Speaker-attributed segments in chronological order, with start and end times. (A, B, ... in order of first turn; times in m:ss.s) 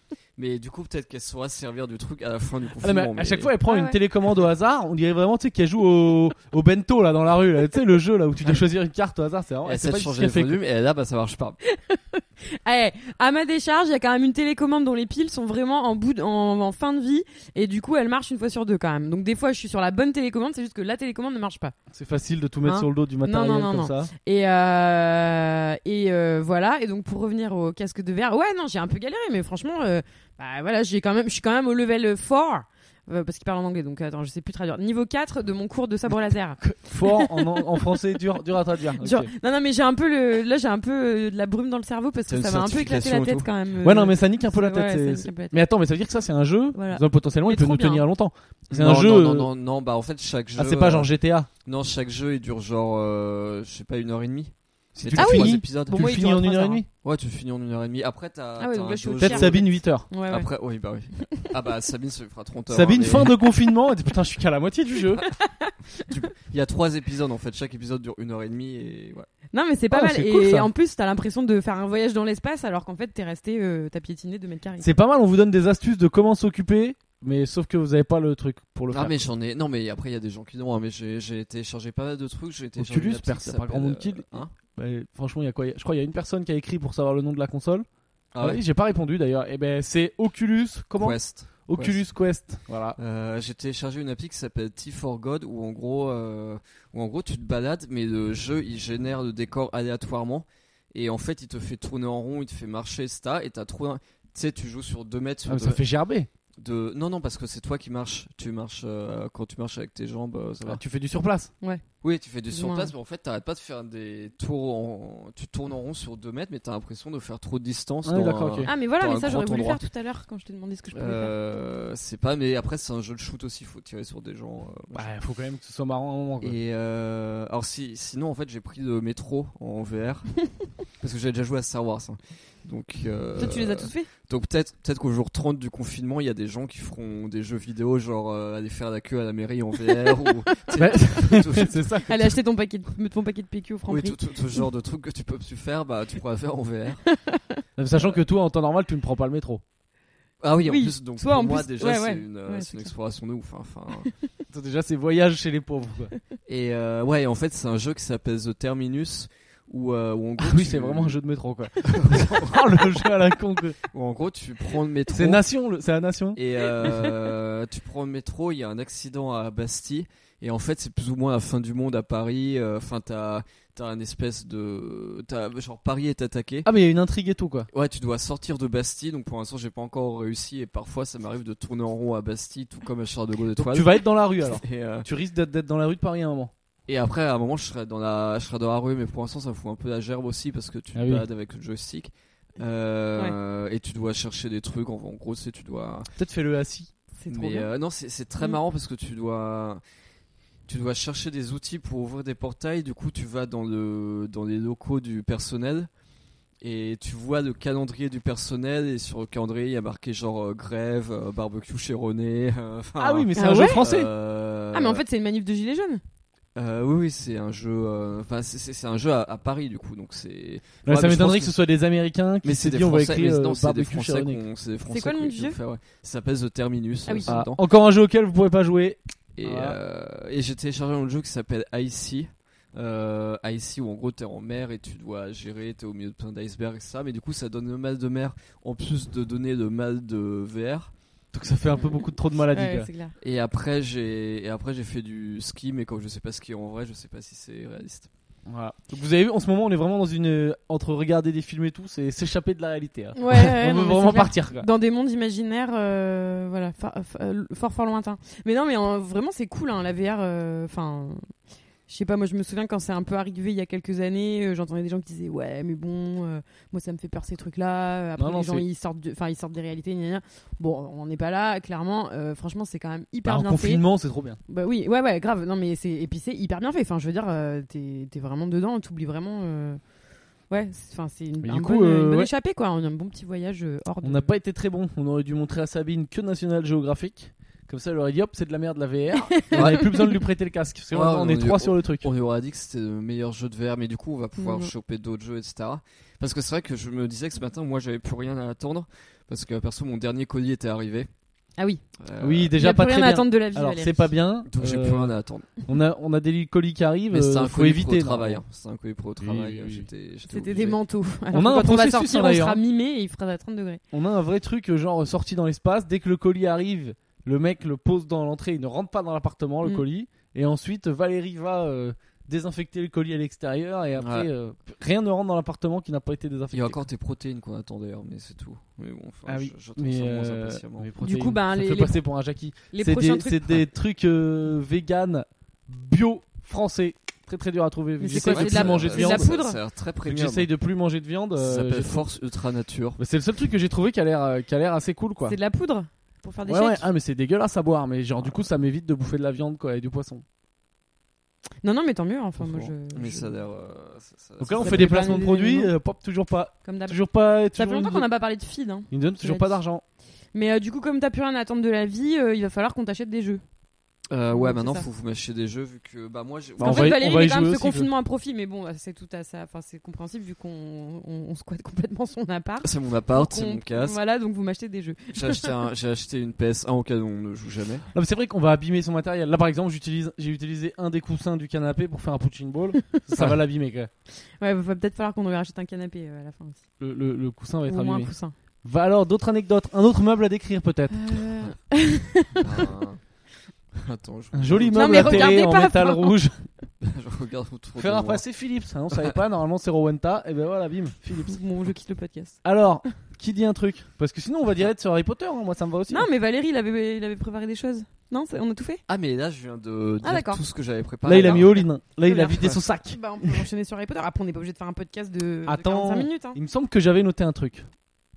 0:00.4-0:03.6 A
0:02.8-0:10.6 B
0:03.7-0:04.0 C
0:09.6-0:11.6 A
0:11.6-0:21.8 C
0:21.9-0:24.1 B
0:22.6-0:38.4 C
0:36.6-0:39.3 B
0:39.0-0:45.6 C
0:42.3-0:43.5 A
0:43.8-0:49.5 B
0:46.7-0:48.1 C
0:48.7-0:51.1 A
0:50.6-0:51.5 B
0:51.6-0:56.0 A
0:55.0-0:56.9 B
0:55.2-0:56.8 C
0:57.0-1:03.4 A
0:58.6-1:00.5 C
0:59.2-1:00.1 B
1:01.2-1:01.5 C
1:02.7-1:05.2 B
1:05.2-1:06.1 C
1:06.1-1:09.3 A
1:09.5-1:14.9 C
1:09.9-1:10.7 B
1:14.8-1:19.2 B
1:18.9-1:24.5 A
1:22.8-1:27.9 B
1:28.3-1:28.6 A
1:28.4-1:33.0 B
1:31.0-1:32.0 A
1:33.0-1:45.8 A
1:45.5-1:46.3 B
1:46.6-1:50.8 A
1:50.6-1:51.5 B
1:52.0-1:59.8 A
1:52.5-1:52.9 C
1:58.0-1:58.7 B
1:58.6-2:01.3 C
2:00.9-2:05.1 A
2:04.9-2:06.6 B
2:06.4-2:22.0 A
2:13.4-2:14.1 C
2:20.8-2:22.4 B
2:22.0-2:24.2 C
2:23.9-2:27.0 A
2:27.1-2:27.6 C
2:27.8-2:29.6 B
2:27.9-2:28.2 A
2:30.4-2:34.1 A
2:30.6-2:32.9 C
2:34.0-2:34.3 C
2:34.5-2:36.1 B
2:36.5-2:41.2 A
2:40.4-2:43.8 B
2:41.8-2:42.9 A
2:43.9-2:45.4 A
2:45.1-2:46.4 B
2:46.4-2:56.7 A
2:46.8-2:47.1 C
2:56.6-2:57.7 B
2:57.7-3:05.1 A
3:03.6-3:06.5 B
3:06.9-3:16.1 A
3:11.0-3:11.3 B
3:16.2-3:16.9 B
3:17.2-3:17.7 C
3:17.3-3:19.8 A
3:20.7-3:25.9 A
3:26.6-3:35.0 A
3:33.0-3:34.1 B
3:33.4-3:33.8 C
3:34.7-3:36.0 C
3:36.6-3:41.6 A
3:40.8-3:44.4 B
3:42.4-3:47.6 A
3:44.9-3:45.6 C
3:47.1-3:47.4 C
3:47.3-3:49.8 B
3:49.4-4:00.9 A
4:01.3-4:02.9 B
4:02.5-4:03.1 C
4:03.2-4:08.1 A
4:08.5-4:14.7 B
4:13.2-4:21.3 C
4:21.9-4:33.8 C
4:28.2-4:28.6 B
4:33.3-4:34.4 B
4:34.5-4:39.8 C
4:40.5-4:44.3 C
4:41.4-4:42.3 B
4:44.0-4:52.1 B
4:49.3-4:50.2 C
4:49.5-4:49.9 A
4:50.9-5:01.1 A
4:54.4-4:54.7 C
5:01.6-5:01.8 C
5:02.0-5:02.6 A
5:02.2-5:05.1 B
5:02.6-5:04.1 C
5:04.5-5:05.6 A
5:05.7-5:08.4 B
5:07.1-5:10.8 A
5:09.2-5:09.9 B
5:10.3-5:13.8 C
5:11.3-5:12.6 B
5:13.9-5:26.8 B
5:24.0-5:24.3 A
5:26.5-5:30.9 A
5:29.3-5:39.3 B
5:31.0-5:32.0 C
5:32.7-5:33.6 C
5:38.0-5:39.6 C
5:38.1-5:40.5 A
5:40.0-5:42.0 B
5:41.4-5:43.0 A
5:43.0-5:45.4 B
5:45.3-5:46.9 C
5:46.5-5:50.2 B
5:51.6-5:53.3 C
5:52.4-5:55.2 A
5:54.4-5:58.1 B
5:54.6-5:55.7 C
5:56.6-5:57.0 C
5:57.5-5:59.6 C
5:58.9-5:59.8 B
6:00.3-6:03.4 C
6:04.1-6:07.0 A
6:04.3-6:04.9 C
6:06.6-6:07.9 B
6:06.6-6:15.5 C
6:12.6-6:14.0 A
6:15.1-6:17.9 A
6:17.9-6:23.9 B
6:24.2-6:26.6 C
6:26.8-6:28.1 B
6:27.7-6:28.3 C
6:28.6-6:31.0 B
6:30.9-6:32.7 C
6:32.3-6:33.0 A
6:33.7-6:35.4 A
6:34.3-6:36.5 B
6:34.7-6:36.2 C
6:36.8-6:38.2 A
6:37.8-6:41.4 B
6:41.2-6:42.4 C
6:42.4-6:46.1 B
6:45.9-6:48.8 C
6:48.9-6:51.6 A
6:50.0-6:50.4 C
6:51.0-6:53.4 B
6:51.1-6:56.4 C
6:55.5-6:57.7 B